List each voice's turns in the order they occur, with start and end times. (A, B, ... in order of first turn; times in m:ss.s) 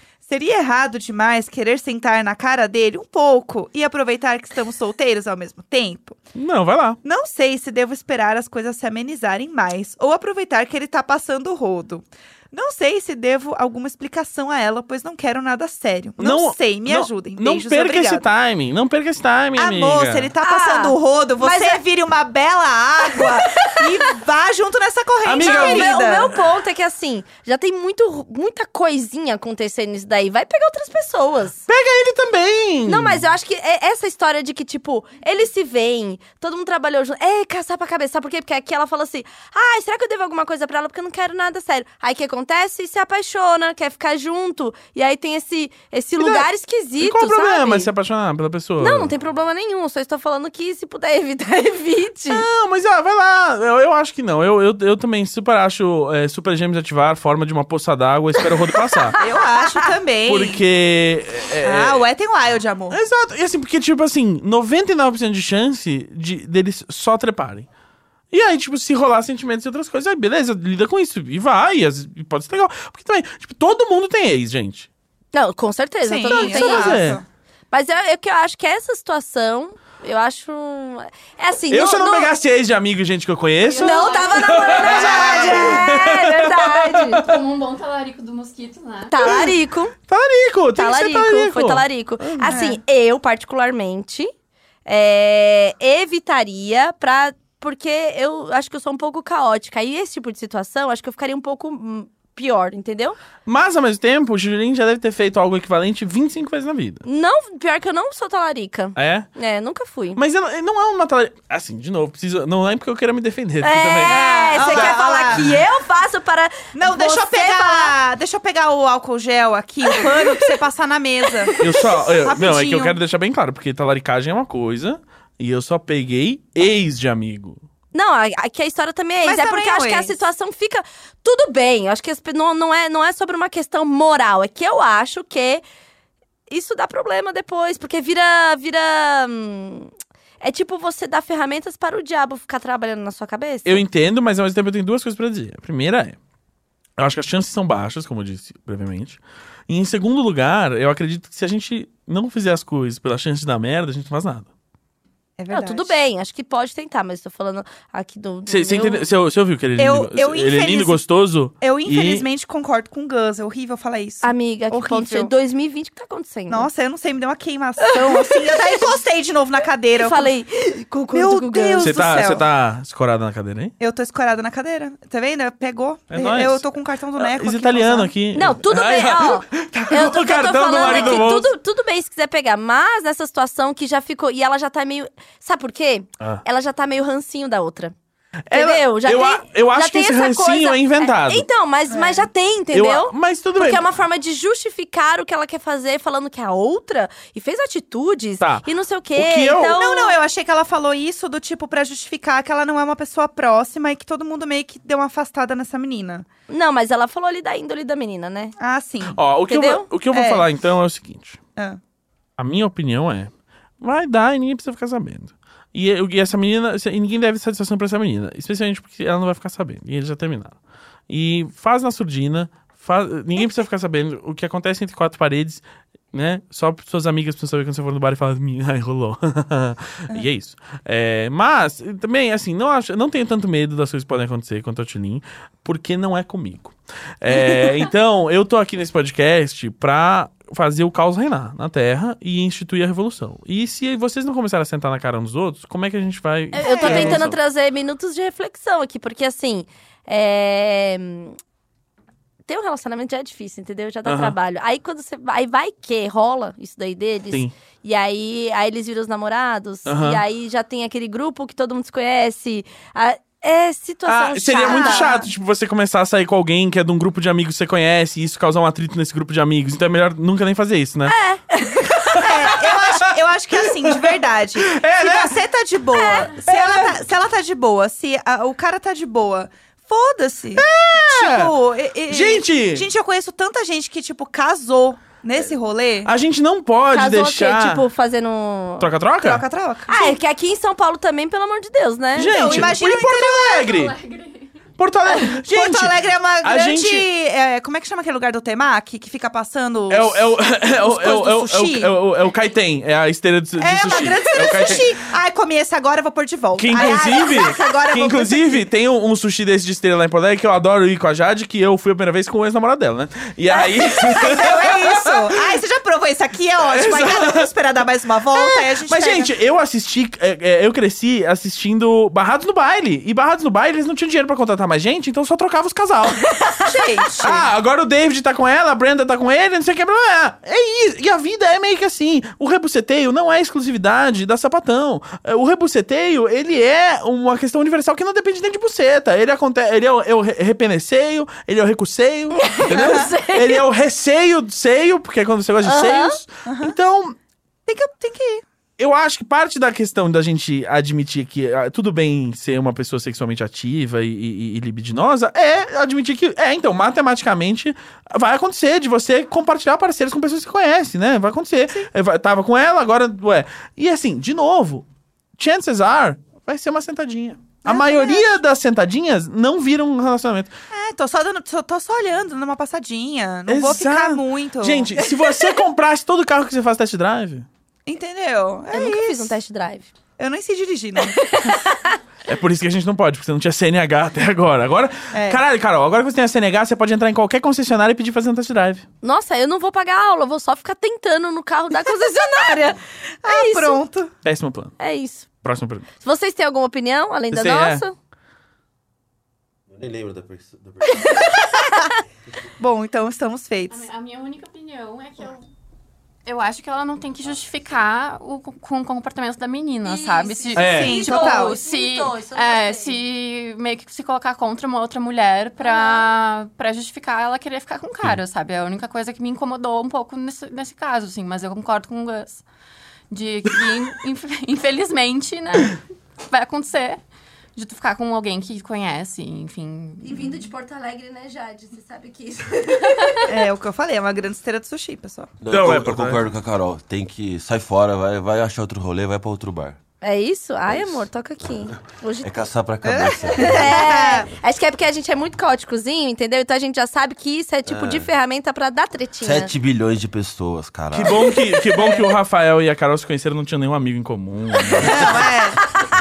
0:00.2-0:06.2 A
0:06.3-0:07.0 B
0:07.0-0:18.2 A
0:16.2-0:20.3 B
0:19.6-0:26.3 A
0:20.4-0:21.8 C
0:23.1-0:24.1 C
0:25.2-0:26.2 B
0:25.4-0:31.7 C
0:31.7-0:33.2 B
0:32.8-0:47.9 C
0:46.2-0:46.5 B
0:47.0-0:49.1 B
0:48.8-0:52.4 C
0:52.3-0:59.2 B
0:59.2-0:59.9 C
0:59.2-1:00.6 A
1:00.3-1:02.0 B
1:01.6-1:03.0 A
1:02.9-1:07.6 B
1:08.3-1:14.9 B
1:15.3-1:17.0 C
1:16.0-1:17.2 A
1:16.3-1:17.2 B
1:17.7-1:22.3 C
1:21.7-1:27.3 B
1:23.6-1:25.1 D
1:23.8-1:27.2 C
1:24.8-1:25.8 A
1:27.1-1:29.2 D
1:29.1-1:29.9 C
1:29.2-1:29.5 B
1:30.1-1:32.6 B
1:30.8-1:34.3 C
1:32.5-1:32.8 A
1:34.8-1:43.2 C
1:43.4-1:47.0 B
1:47.0-1:50.2 C
1:49.0-1:49.3 B
1:50.2-1:55.5 B
1:53.6-1:58.0 C
1:54.0-1:55.6 A
1:56.7-2:01.6 A
1:59.9-2:00.6 C
2:01.3-2:01.7 C
2:01.6-2:07.6 B
2:02.2-2:03.0 A
2:07.9-2:15.6 C
2:09.2-2:10.2 A
2:16.5-2:23.8 C
2:23.6-2:26.2 B
2:27.0-2:34.5 B
2:35.4-2:36.0 A
2:35.5-2:39.0 C
2:38.5-2:42.2 B
2:39.8-2:41.0 A
2:41.6-2:45.3 A
2:44.2-2:46.7 C
2:46.5-2:50.3 A
2:47.8-2:48.9 C
2:50.0-2:52.0 C
2:51.1-2:52.4 A
2:51.8-2:53.7 B
2:53.8-2:58.1 A
2:56.1-3:01.5 B
2:58.3-3:07.9 C
3:00.8-3:01.2 A
3:08.5-3:11.5 B
3:08.5-3:20.2 C
3:11.9-3:12.2 A
3:12.7-3:13.8 B
3:18.4-3:19.8 B
3:19.7-3:26.2 A
3:26.5-3:28.5 C
3:28.6-3:29.2 A
3:29.1-3:31.4 B
3:29.5-3:29.9 C
3:30.1-3:30.4 A
3:32.4-3:40.6 B
3:41.1-4:07.4 B
4:06.5-4:11.4 C
4:06.6-4:07.2 A
4:12.5-4:25.2 C
4:14.0-4:14.3 B
4:19.9-4:20.2 B
4:24.0-4:31.2 B
4:24.6-4:25.2 A
4:31.1-4:32.2 C
4:32.0-4:34.2 B
4:32.2-4:46.1 A
4:34.7-4:35.4 B
4:35.9-4:36.3 C
4:36.4-4:37.0 B
4:40.5-4:41.5 B
4:42.1-4:42.9 B
4:46.0-4:47.8 B
4:46.9-4:48.9 C
4:48.8-4:49.4 B
4:49.2-4:50.2 A
4:49.9-4:52.7 C
4:52.2-4:53.9 B
4:52.3-4:53.8 A
4:53.7-4:54.6 D
4:54.8-4:57.0 B
4:55.1-5:01.9 A
4:59.9-5:04.9 B
5:03.6-5:08.6 A
5:06.6-5:15.6 B
5:13.6-5:19.3 A
5:16.6-5:17.5 B
5:18.3-5:26.4 B
5:26.6-5:27.5 A
5:27.2-5:47.2 B
5:42.3-5:43.6 C
5:42.7-5:43.0 A
5:45.6-5:46.2 C
5:46.4-5:46.7 A
5:47.7-5:48.4 A
5:48.8-6:04.8 B
6:05.4-6:10.5 B
6:07.6-6:08.3 A
6:10.7-6:15.0 A
6:13.5-6:17.4 B
6:17.8-6:19.3 A
6:18.7-6:19.9 C
6:20.2-6:21.3 A
6:21.0-6:22.0 C
6:22.3-6:28.8 B
6:25.1-6:25.4 A
6:29.0-6:33.8 C
6:33.2-6:34.1 A
6:34.2-6:34.8 B
6:34.8-6:35.3 C
6:35.4-6:35.9 B
6:36.0-6:37.9 C
6:37.3-6:37.8 B
6:39.7-6:41.3 E
6:41.5-6:41.9 A
6:42.6-6:43.8 A
6:43.7-6:45.4 D
6:46.2-7:02.4 D
6:49.8-6:53.0 C
6:50.5-6:51.0 B
6:50.6-6:51.6 A
6:55.6-6:56.1 C
7:03.1-7:07.0 D
7:07.6-7:10.4 D
7:10.0-7:13.3 C
7:13.3-7:15.3 A
7:15.4-7:19.8 E
7:15.5-7:16.2 B
7:20.0-7:22.3 C
7:20.7-7:21.0 E
7:22.2-7:23.8 E
7:22.8-7:24.3 A
7:23.3-7:29.5 C
7:27.7-7:28.1 E
7:29.2-7:31.3 E
7:30.9-7:35.3 B
7:31.7-7:32.1 A
7:34.8-7:35.7 A